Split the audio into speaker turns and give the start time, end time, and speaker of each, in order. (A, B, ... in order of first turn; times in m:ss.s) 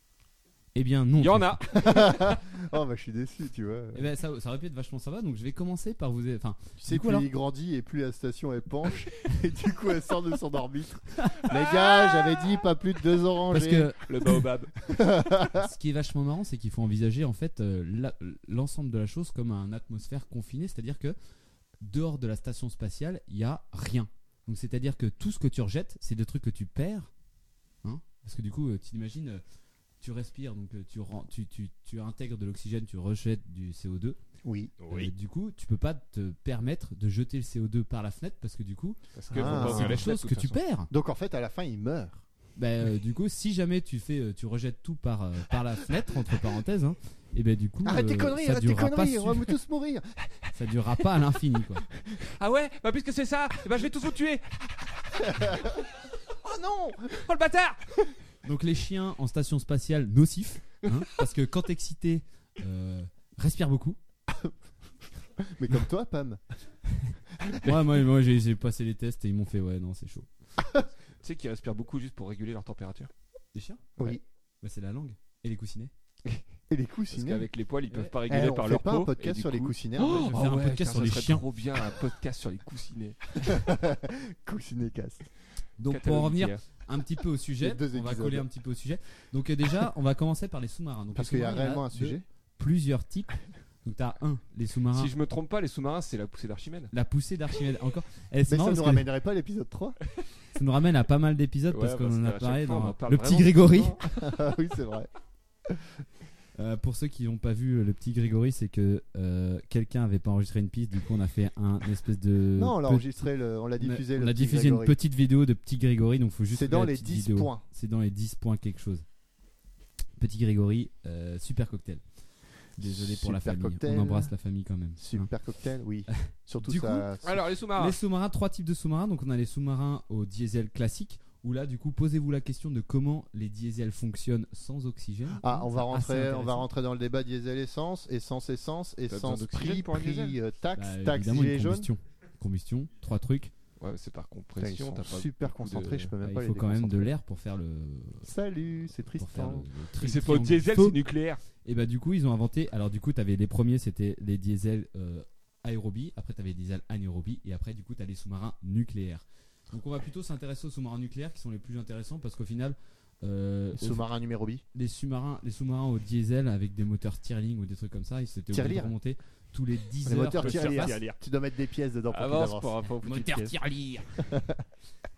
0:00.8-0:01.9 A
0:01.2-0:02.1 B
0:01.7-0:04.0 C
0:04.0-0:07.3 A
0:06.8-0:13.9 C
0:11.5-0:12.4 B
0:13.5-0:14.4 A
0:14.1-0:14.7 B
0:14.8-0:15.7 C
0:15.5-0:21.2 A
0:21.8-0:27.1 A
0:27.8-0:29.4 A
0:30.0-0:34.2 A
0:34.4-0:34.8 C
0:34.8-0:35.1 B
0:34.9-0:40.9 A
0:39.1-0:40.6 B
0:39.3-0:40.1 C
0:40.9-0:42.2 C
0:42.6-0:49.5 A
0:47.8-0:50.5 C
0:50.5-0:51.8 A
0:52.2-0:55.7 B
0:55.3-0:55.8 C
0:56.4-0:57.2 C
0:57.1-0:58.2 B
0:58.4-1:04.0 A
1:04.3-1:04.5 C
1:05.4-1:06.4 C
1:07.0-1:10.3 A
1:07.4-1:07.9 C
1:11.2-1:13.1 B
1:13.6-1:15.9 A
1:16.7-1:17.5 C
1:17.1-1:23.5 B
1:17.9-1:18.2 A
1:18.3-1:20.3 C
1:20.0-1:21.4 A
1:23.4-1:25.3 C
1:25.8-1:33.3 A
1:25.9-1:26.6 B
1:27.6-1:28.5 C
1:31.2-1:32.2 C
1:33.8-1:35.1 A
1:34.9-1:36.9 B
1:36.9-1:39.1 A
1:38.5-1:40.0 C
1:40.5-1:44.0 A
1:41.7-1:44.2 B
1:44.0-1:45.1 C
1:46.6-1:53.3 A
1:52.6-1:55.0 C
1:53.8-1:59.0 A
1:56.5-1:57.6 C
2:00.2-2:02.0 A
2:02.8-2:04.3 C
2:02.8-2:05.3 A
2:05.0-2:07.4 C
2:06.1-2:07.1 A
2:07.2-2:08.0 B
2:07.8-2:16.7 A
2:15.4-2:21.9 C
2:19.1-2:20.4 B
2:20.8-2:23.5 A
2:23.8-2:26.1 B
2:24.6-2:27.2 C
2:26.2-2:28.3 A
2:28.2-2:29.7 C
2:29.1-2:31.0 A
2:30.0-2:31.4 B
2:31.6-2:44.0 A
2:43.8-2:44.6 C
2:44.7-2:51.0 A
2:48.5-2:48.9 C
2:50.1-2:52.8 C
2:50.4-2:51.2 B
2:52.1-2:53.6 B
2:53.0-2:54.1 A
2:54.2-2:54.6 C